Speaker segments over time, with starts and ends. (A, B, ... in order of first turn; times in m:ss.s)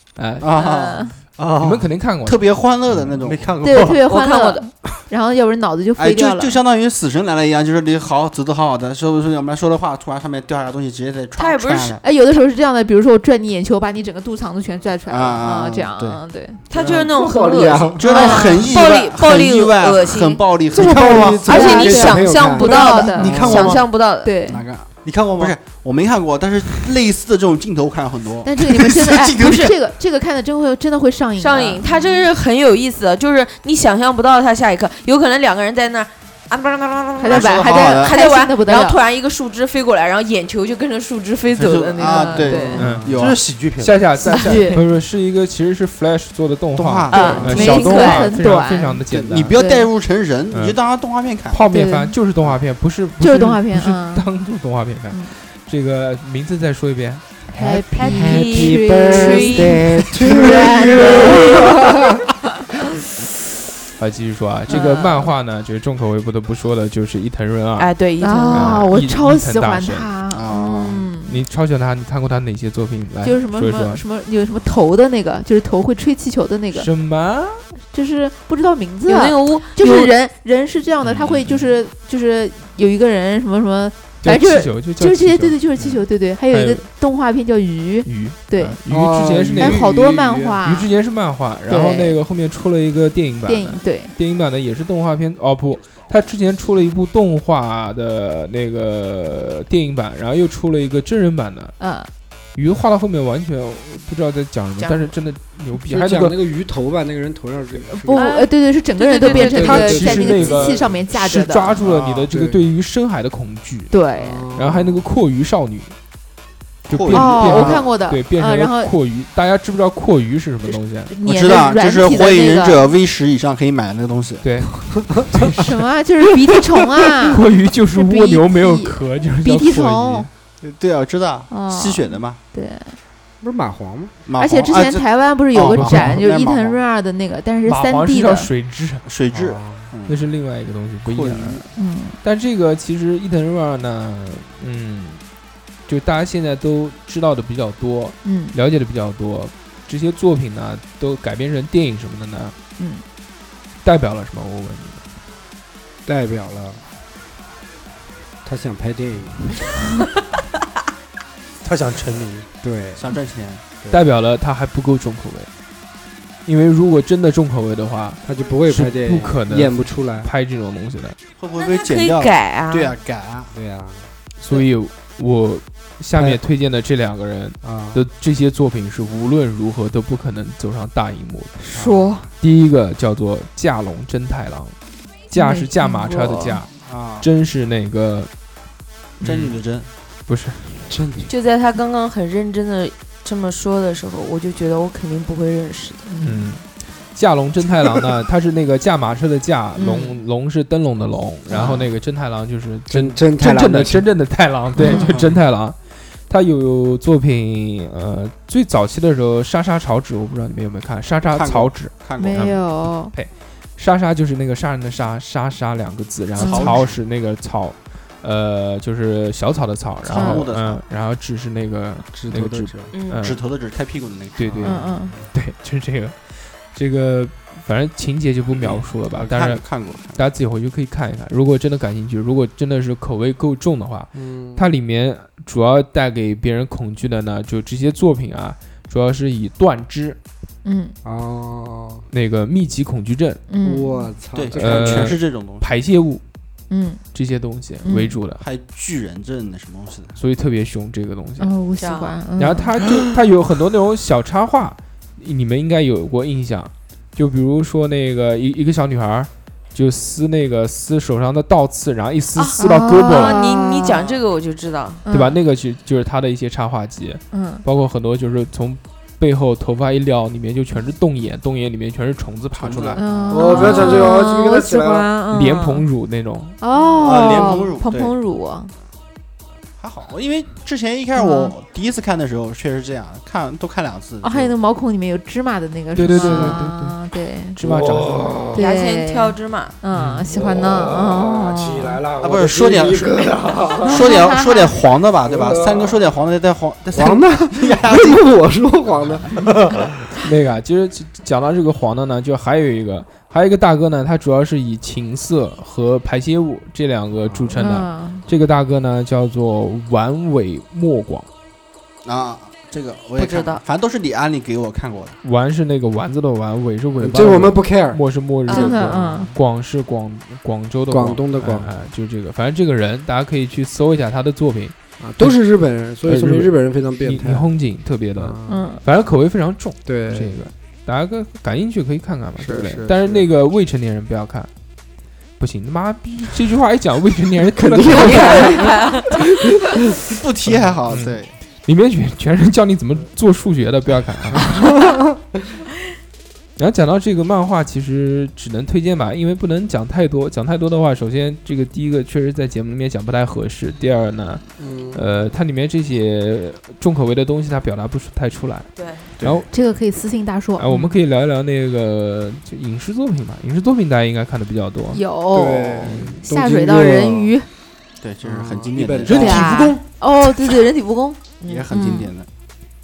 0:00.2-0:00.5 A
0:00.4-0:01.1 B
0:00.6-0:01.2 C
0:01.4-0:01.9 D
0:01.6-0:02.4 A
0:02.2-0:03.6 B
0:03.2-0:04.0 D
0:03.6-0:06.6 C
0:03.8-0:04.7 E
0:06.0-0:12.0 B
0:11.4-0:12.0 E
0:12.0-0:16.6 C
0:15.1-0:16.2 B
0:16.7-0:20.4 E
0:16.8-0:18.0 F
0:18.0-0:21.4 B
0:18.0-0:18.8 C
0:20.7-0:23.8 F
0:20.8-0:21.4 D
0:21.4-0:24.3 E
0:21.5-0:23.5 C
0:23.1-0:23.9 D
0:24.2-0:24.6 C
0:24.4-0:29.5 B
0:25.0-0:25.6 D
0:28.4-0:32.3 C
0:31.4-0:42.8 E
0:37.2-0:39.0 C
0:37.3-0:38.2 B
0:41.5-0:43.4 B
0:42.0-0:43.0 C
0:42.7-0:43.1 F
0:42.8-0:43.1 A
0:43.1-0:44.1 D
0:43.8-0:49.5 A
0:44.2-0:44.8 C
0:46.7-0:48.0 B
0:47.1-0:49.0 C
0:47.1-0:48.3 E
0:49.1-0:51.6 B
0:49.6-0:49.9 C
0:51.5-0:57.2 A
0:51.6-0:52.2 C
0:53.2-0:54.3 C
0:57.5-1:01.9 C
0:57.6-1:02.0 F
0:58.0-0:59.8 E
1:04.0-1:07.9 A
1:04.7-1:05.3 C
1:07.8-1:08.9 E
1:08.2-1:11.4 C
1:08.5-1:10.1 A
1:10.3-1:11.1 B
1:11.3-1:14.0 A
1:13.2-1:16.9 C
1:16.7-1:17.6 A
1:17.9-1:28.8 C
1:19.1-1:20.1 E
1:21.0-1:21.7 A
1:24.2-1:26.8 A
1:28.0-1:29.9 A
1:28.9-1:30.6 F
1:29.6-1:30.9 C
1:30.6-1:41.7 A
1:31.7-1:32.2 C
1:33.4-1:34.1 C
1:41.8-1:42.1 C
1:42.6-1:46.4 A
1:44.8-1:45.1 E
1:45.8-1:48.3 F
1:47.9-1:51.8 C
1:48.1-1:50.0 E
1:49.3-1:50.9 F
1:49.3-1:53.9 A
1:51.8-1:52.2 B
1:52.3-1:52.6 F
1:53.9-1:54.5 C
1:54.2-1:55.0 F
1:54.6-1:55.9 A
1:56.9-2:01.2 A
1:56.9-1:57.9 B
1:57.1-1:58.9 C
2:01.1-2:02.9 C
2:01.2-2:04.4 B
2:04.4-2:05.8 A
2:05.5-2:10.3 C
2:07.0-2:10.3 A
2:10.6-2:12.4 B
2:11.5-2:13.0 C
2:13.4-2:14.1 F
2:14.3-2:16.8 B
2:14.4-2:18.5 C
2:15.6-2:16.2 A
2:17.6-2:19.0 A
2:19.0-2:20.2 B
2:19.3-2:19.9 F
2:20.1-2:21.7 A
2:21.0-2:21.6 B
2:21.8-2:22.2 C
2:22.2-2:25.2 A
2:25.9-2:32.6 A
2:28.2-2:28.6 C
2:33.8-2:35.0 A
2:36.1-2:36.8 F
2:38.4-2:39.6 F
2:41.6-2:42.5 D
2:42.6-2:43.1 F
2:43.0-2:43.6 B
2:43.9-2:45.5 A
2:46.4-2:51.2 A
2:48.2-2:50.3 F
2:51.4-2:53.5 B
2:51.6-2:52.9 E
2:53.5-2:54.1 F
2:54.4-3:01.6 A
2:56.1-2:56.4 F
2:57.6-2:58.0 F
3:01.6-3:02.2 C
3:01.7-3:02.1 F
3:02.4-3:04.7 A
3:05.3-3:06.7 A
3:05.3-3:06.6 C
3:06.8-3:07.3 B
3:07.2-3:08.3 A
3:09.2-3:09.6 A
3:09.2-3:09.9 B
3:10.3-3:10.9 A
3:10.9-3:11.3 F
3:11.3-3:16.1 E
3:16.1-3:16.4 C
3:16.2-3:25.8 A
3:19.8-3:20.1 E
3:21.5-3:21.8 E
3:22.9-3:24.1 F
3:24.8-3:25.1 C
3:25.1-3:25.3 B
3:26.3-3:43.4 A
3:31.3-3:32.6 B
3:32.2-3:33.1 C
3:36.4-3:36.8 C
3:36.4-3:36.9 B
3:40.0-3:40.8 B
3:40.1-3:40.4 C
3:42.1-3:42.9 F
3:42.9-3:43.2 E
3:43.2-3:44.7 B
3:44.4-4:00.2 A
3:44.6-3:45.2 F
3:44.6-3:45.2 C
3:48.6-3:50.2 B
3:54.1-3:54.7 F
4:00.6-4:01.0 C
4:01.0-4:02.1 F
4:02.1-4:03.4 A
4:03.5-4:04.2 C
4:03.6-4:05.2 F
4:04.3-4:05.7 B
4:04.5-4:06.2 A
4:06.7-4:07.0 C
4:07.1-4:08.4 A
4:07.8-4:08.2 C
4:08.4-4:10.2 B
4:10.2-4:11.5 A
4:11.4-4:12.7 C
4:11.8-4:12.1 E
4:12.4-4:23.4 A
4:22.4-4:25.0 E
4:22.6-4:24.0 C
4:25.1-4:25.4 C
4:25.1-4:33.0 A
4:27.3-4:27.6 C
4:32.6-4:33.6 B
4:33.0-4:35.9 C
4:33.3-4:35.1 F
4:35.3-4:36.6 A
4:36.6-4:38.7 C
4:37.0-4:38.2 B
4:39.8-4:44.5 B
4:41.1-4:41.5 C
4:44.2-4:47.6 C
4:46.0-4:47.0 A
4:46.2-4:46.6 F
4:47.6-4:48.5 A
4:47.6-4:48.6 F
4:48.5-4:52.0 C
4:48.6-4:49.8 E
4:49.9-4:50.3 A
4:50.3-4:54.1 F
4:52.2-4:53.3 B
4:53.8-4:54.7 C
4:53.8-4:58.2 B
4:55.2-4:56.0 F
4:56.9-4:59.8 F
5:00.2-5:11.3 A
5:07.6-5:08.2 C
5:12.0-5:15.2 B
5:13.2-5:13.6 E
5:15.2-5:25.4 A
5:17.0-5:18.0 F
5:18.5-5:19.3 C
5:18.5-5:18.7 E
5:20.9-5:21.7 F
5:25.0-5:27.5 F
5:26.0-5:34.5 A
5:28.2-5:28.6 F
5:28.5-5:28.8 C
5:29.9-5:30.4 F
5:32.4-5:33.3 F
5:35.4-5:38.7 A
5:37.6-5:39.5 F
5:38.1-5:39.1 E
5:40.1-5:41.3 B
5:40.9-5:44.7 A
5:44.5-5:45.0 F
5:46.6-5:54.4 A
5:54.6-5:55.0 F
5:54.9-5:59.5 A
5:58.8-5:59.0 E
5:59.2-5:59.4 B
5:59.5-6:00.9 C
6:00.6-6:05.0 A
6:04.9-6:07.5 C
6:05.3-6:07.3 F
6:05.8-6:06.2 A
6:08.0-6:09.5 B
6:08.2-6:09.8 F
6:09.1-6:12.1 C
6:09.1-6:09.8 D
6:11.4-6:12.3 B